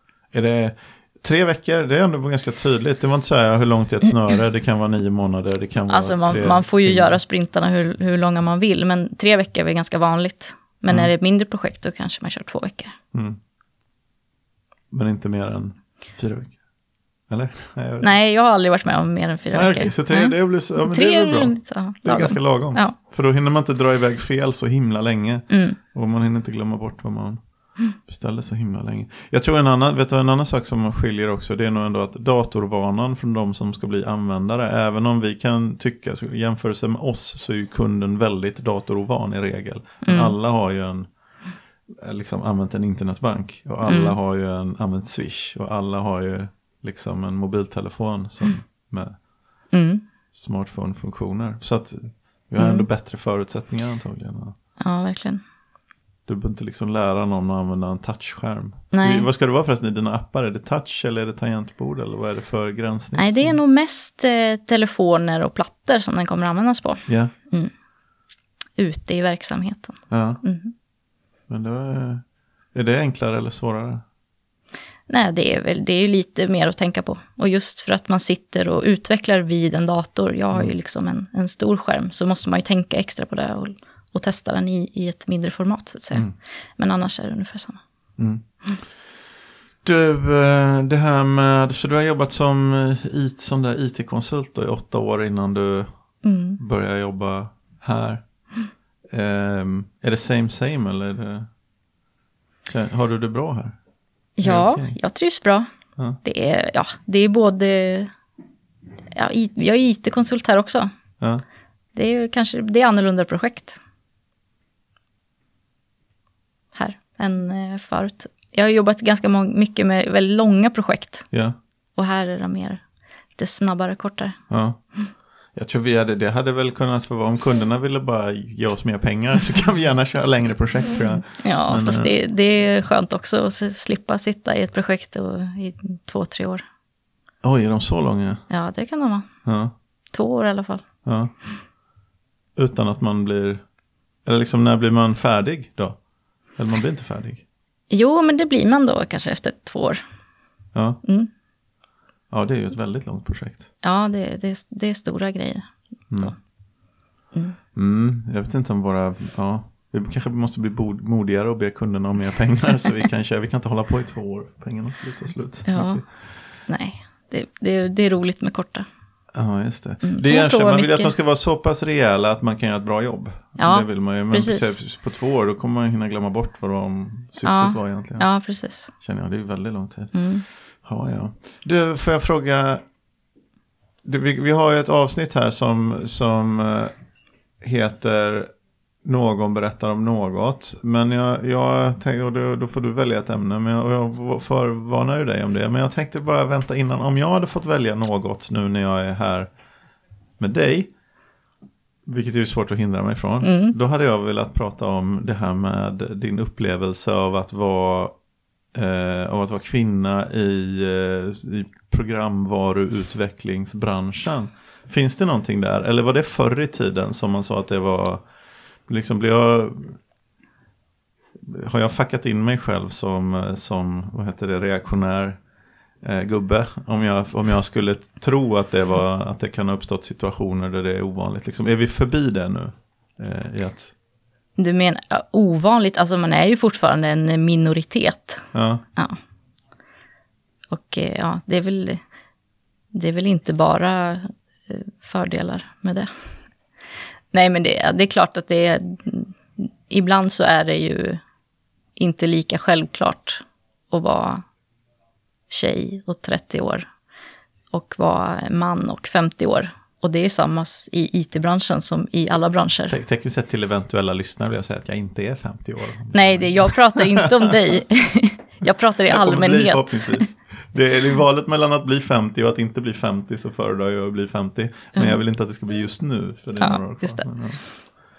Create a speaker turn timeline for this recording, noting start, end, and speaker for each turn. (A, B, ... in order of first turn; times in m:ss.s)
0:00.3-0:07.2 A
0:05.9-0:13.0 B
0:13.1-0:13.4 A
0:14.9-0:16.6 A
0:17.3-0:18.1 A
0:18.0-0:23.0 B
0:19.5-0:41.1 A
0:25.5-0:25.8 B
0:40.0-0:40.4 B
0:41.9-0:49.3 A
0:43.8-0:44.2 B
0:49.7-0:50.0 B
0:50.3-0:54.6 A
0:52.6-0:52.9 B
0:54.8-0:55.4 B
0:56.3-1:03.6 A
0:58.9-0:59.3 B
1:03.2-1:07.7 B
1:07.1-1:07.3 A
1:08.8-1:10.7 B
1:10.1-1:10.4 A
1:11.5-1:14.0 A
1:15.1-1:27.8 B
1:28.2-1:29.0 A
1:29.8-1:38.5 A
1:36.2-1:36.6 B
1:39.1-1:41.5 A
1:42.7-1:43.8 A
1:44.4-1:45.7 B
1:44.4-1:45.0 A
1:46.2-1:48.1 B
1:49.1-1:50.9 B
1:52.0-1:53.8 B
1:56.8-2:01.3 B
2:02.0-2:02.8 B
2:03.4-2:04.4 B
2:04.5-2:04.8 A
2:05.5-2:12.1 A
2:11.4-2:16.6 B
2:17.4-2:18.4 A
2:18.5-2:19.3 B
2:19.4-2:19.7 A
2:20.1-2:20.9 B
2:21.0-2:21.3 A
2:22.6-2:23.6 A
2:24.2-2:26.0 A
2:26.5-2:27.4 A
2:27.9-2:30.0 B
2:30.7-2:31.0 A
2:31.0-2:31.3 B
2:32.3-2:33.7 A
2:33.8-2:36.4 B
2:37.7-2:46.1 A
2:45.7-2:48.9 B
2:49.3-2:58.3 A
2:50.0-2:51.1 B
2:53.6-2:54.8 B
2:57.4-2:58.9 B
2:58.9-3:02.8 A
3:00.1-3:00.5 B
3:04.0-3:06.9 A
3:07.6-3:08.5 A
3:09.0-3:19.5 A
3:20.4-3:20.9 A
3:22.1-3:28.2 A
3:23.4-3:23.8 B
3:28.7-3:38.3 A
3:38.9-3:40.0 A
3:41.4-3:45.4 A
3:46.0-3:54.0 A
3:54.6-3:59.2 B
3:58.5-3:58.8 A
4:00.7-4:02.0 B
4:02.9-4:06.1 B
4:07.3-4:11.2 B
4:12.0-4:14.4 B
4:15.5-4:16.9 B
4:17.7-4:23.0 B
4:22.9-4:27.3 A
4:26.1-4:30.3 B
4:29.1-4:37.7 A
4:35.0-4:35.2 B
4:36.6-4:37.3 B